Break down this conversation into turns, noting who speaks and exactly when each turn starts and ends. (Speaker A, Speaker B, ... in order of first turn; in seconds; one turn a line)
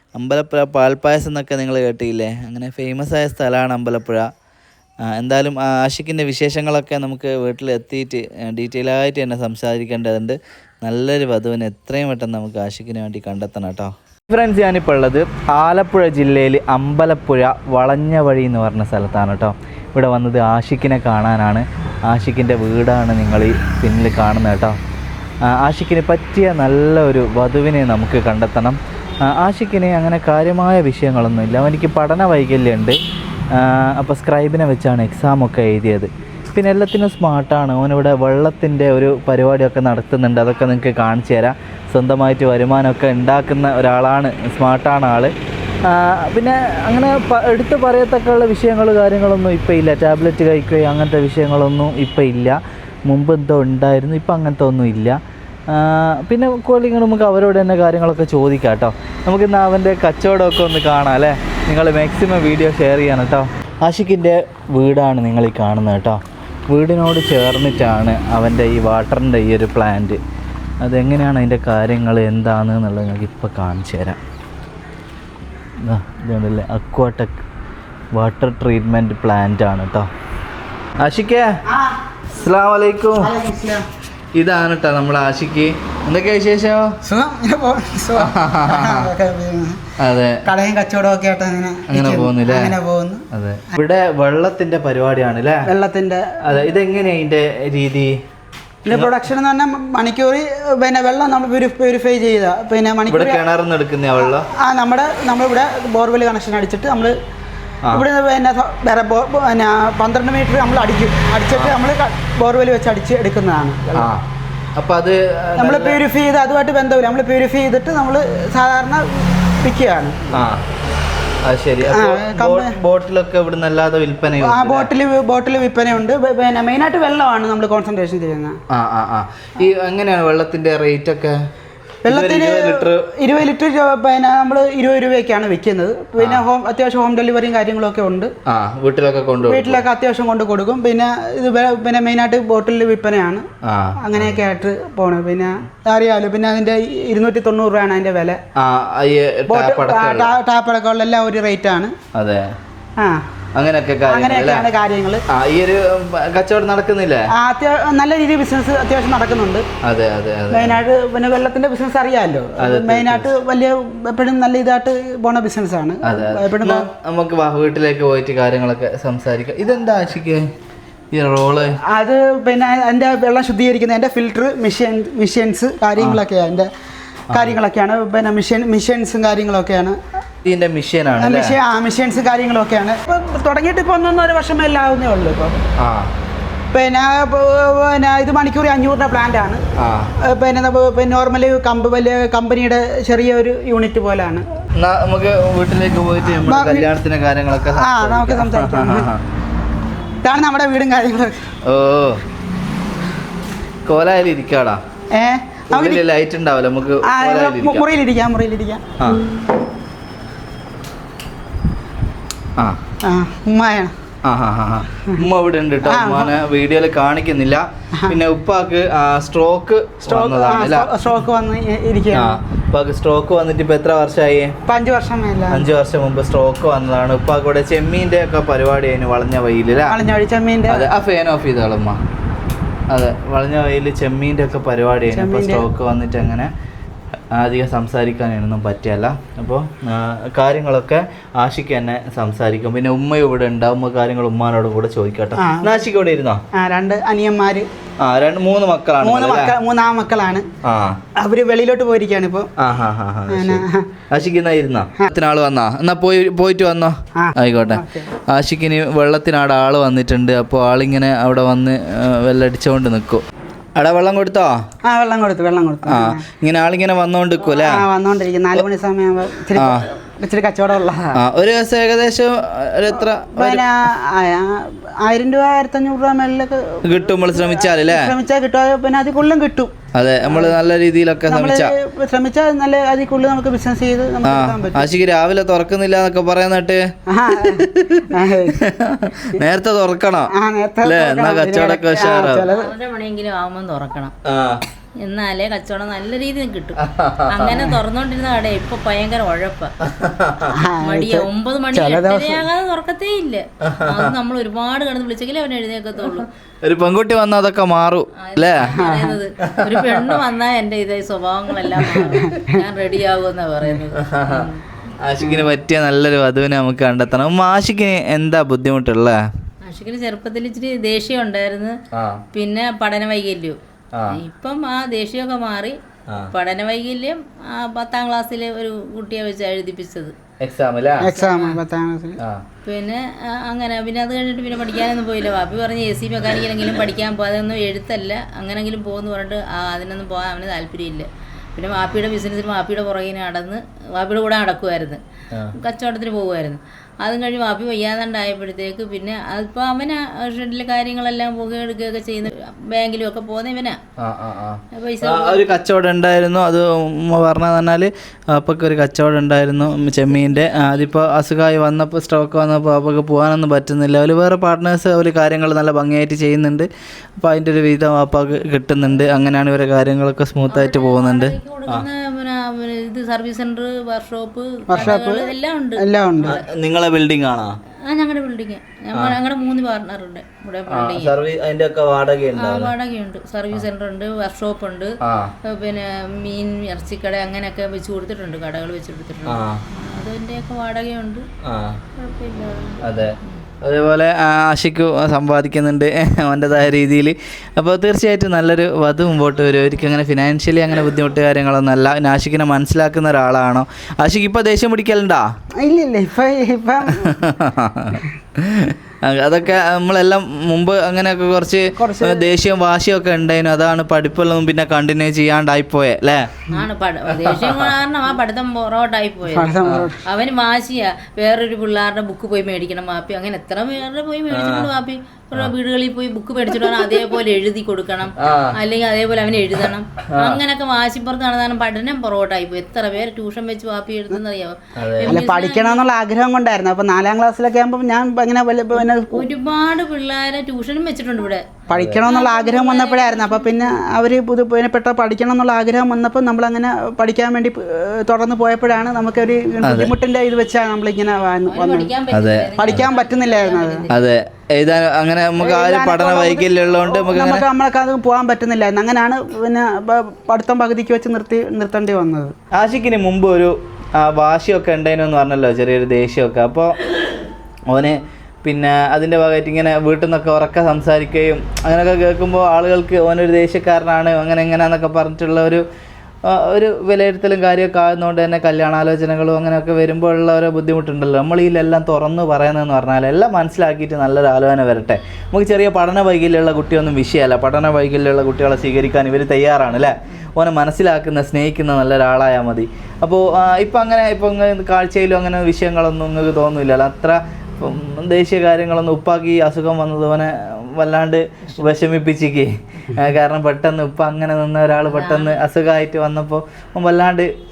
Speaker A: 0.2-4.2
Speaker A: 5.1-24.8
Speaker A: 25.4-33.0
Speaker A: 33.5-45.3
Speaker A: 45.9-55.2
Speaker A: 55.7-70.2
Speaker A: 70.8-74.2
Speaker A: 75.8-77.4
Speaker A: 78.1-80.1
Speaker A: 81.0-81.5
Speaker B: 81.7-82.0
Speaker A: 82.3-83.3
Speaker B: 83.2-83.8
Speaker A: 84.3-87.0
Speaker B: 87.0-89.8
Speaker A: 88.2-89.1
Speaker A: 90.0-90.4
Speaker B: 90.4-93.2
Speaker A: 91.9-92.7
Speaker A: 93.3-95.7
Speaker B: 95.7-96.7
Speaker A: 96.4-98.1
Speaker B: 98.8-103.4
Speaker A: 98.9-99.2
Speaker A: 103.1-104.5
Speaker B: 104.2-107.1
Speaker B: 107.9-114.1
Speaker A: 114.0-114.2
Speaker A: 114.8-116.0
Speaker B: 115.6-120.3
Speaker A: 120.3-120.6
Speaker A: 121.4-124.9
Speaker B: 121.9-122.8
Speaker B: 124.4-128.6
Speaker A: 128.7-131.4
Speaker B: 132.0-138.3
Speaker A: 132.1-133.0
Speaker A: 136.2-136.4
Speaker A: 138.5-139.8
Speaker B: 139.4-143.4
Speaker A: 143.6-144.4
Speaker B: 144.0-148.4
Speaker A: 148.6-150.3
Speaker B: 149.5-151.9
Speaker A: 152.1-152.5
Speaker A: 153.5-154.7
Speaker B: 154.1-155.2
Speaker A: 155.3-157.3
Speaker B: 157.3-159.6
Speaker A: 159.8-160.8
Speaker B: 160.5-166.9
Speaker A: 162.6-163.3
Speaker A: 166.0-170.4
Speaker A: 171.1-171.8
Speaker B: 171.9-176.7
Speaker B: 177.3-180.0
Speaker A: 180.4-181.6
Speaker B: 181.2-185.6
Speaker A: 185.8-186.1
Speaker B: 186.7-189.6
Speaker A: 189.8-190.1
Speaker B: 190.2-194.4
Speaker A: 194.8-199.2
Speaker B: 196.3-196.9
Speaker B: 197.7-199.1
Speaker B: 200.2-201.4
Speaker A: 201.7-202.2
Speaker A: 203.8-204.8
Speaker B: 205.1-206.0
Speaker A: 205.7-207.8
Speaker B: 207.0-208.8
Speaker B: 213.0-213.9
Speaker A: 214.2-220.9
Speaker B: 215.8-216.3
Speaker B: 220.0-222.4
Speaker A: 222.1-224.5
Speaker B: 224.7-225.6
Speaker A: 225.5-229.9
Speaker B: 229.9-230.8
Speaker A: 230.7-232.0
Speaker A: 232.9-236.5
Speaker B: 235.1-235.7
Speaker A: 237.3-246.4
Speaker B: 245.4-245.8
Speaker B: 246.5-247.7
Speaker A: 248.0-249.5
Speaker B: 249.0-250.4
Speaker A: 250.6-251.0
Speaker B: 251.2-252.5
Speaker A: 252.6-263.2
Speaker B: 253.3-253.9
Speaker B: 257.1-258.1
Speaker A: 263.8-264.6
Speaker B: 264.8-266.2
Speaker A: 265.9-267.8
Speaker B: 267.4-271.1
Speaker A: 269.6-269.8
Speaker A: 271.1-273.6
Speaker B: 273.0-279.7
Speaker A: 276.8-278.1
Speaker A: 279.9-281.7
Speaker B: 280.3-280.6
Speaker B: 281.3-284.9
Speaker A: 284.2-290.3
Speaker B: 287.1-288.7
Speaker B: 290.3-292.7
Speaker A: 290.8-292.5
Speaker C: 292.5-294.1
Speaker A: 294.2-294.6
Speaker C: 295.0-299.7
Speaker A: 296.8-297.4
Speaker B: 297.5-297.8
Speaker A: 299.8-300.5
Speaker B: 300.5-302.4
Speaker C: 300.8-306.3
Speaker A: 303.6-304.1
Speaker A: 306.0-308.7
Speaker C: 308.2-314.6
Speaker B: 308.7-309.2
Speaker A: 309.5-310.1
Speaker B: 311.8-312.6
Speaker A: 314.0-314.5
Speaker A: 315.0-319.2
Speaker C: 319.6-321.7
Speaker A: 321.9-322.2
Speaker C: 322.3-323.6
Speaker A: 323.9-324.2
Speaker C: 324.1-325.8
Speaker A: 326.1-326.3
Speaker C: 326.3-330.1
Speaker A: 330.4-331.1
Speaker B: 331.0-332.2
Speaker C: 331.1-331.6
Speaker A: 332.2-332.4
Speaker C: 332.6-345.0
Speaker C: 345.6-353.8
Speaker A: 354.0-371.9
Speaker C: 354.7-355.6
Speaker C: 360.2-360.7
Speaker C: 370.5-376.4
Speaker B: 374.7-376.4
Speaker A: 376.2-377.6
Speaker C: 377.8-381.1
Speaker A: 380.7-382.7
Speaker C: 382.4-384.9
Speaker A: 385.0-385.3
Speaker C: 385.5-391.2
Speaker A: 389.3-389.6
Speaker A: 391.4-391.8
Speaker C: 391.9-393.4
Speaker A: 392.8-405.2
Speaker B: 405.6-407.2
Speaker A: 406.9-416.3
Speaker B: 411.8-412.3
Speaker C: 416.5-435.8
Speaker A: 417.1-417.7
Speaker B: 419.3-420.0
Speaker A: 424.3-424.7
Speaker A: 428.2-428.6
Speaker A: 430.1-430.4
Speaker A: 434.8-435.2
Speaker B: 435.1-439.2
Speaker C: 438.7-441.4
Speaker B: 441.7-451.9
Speaker A: 441.7-442.0
Speaker C: 442.0-443.8
Speaker A: 449.6-449.9
Speaker C: 451.5-453.9
Speaker A: 452.1-452.8
Speaker B: 452.6-453.9
Speaker A: 453.9-457.4
Speaker B: 455.4-462.3
Speaker A: 462.5-466.8
Speaker A: 467.7-475.6
Speaker A: 476.3-507.3
Speaker C: 504.9-505.4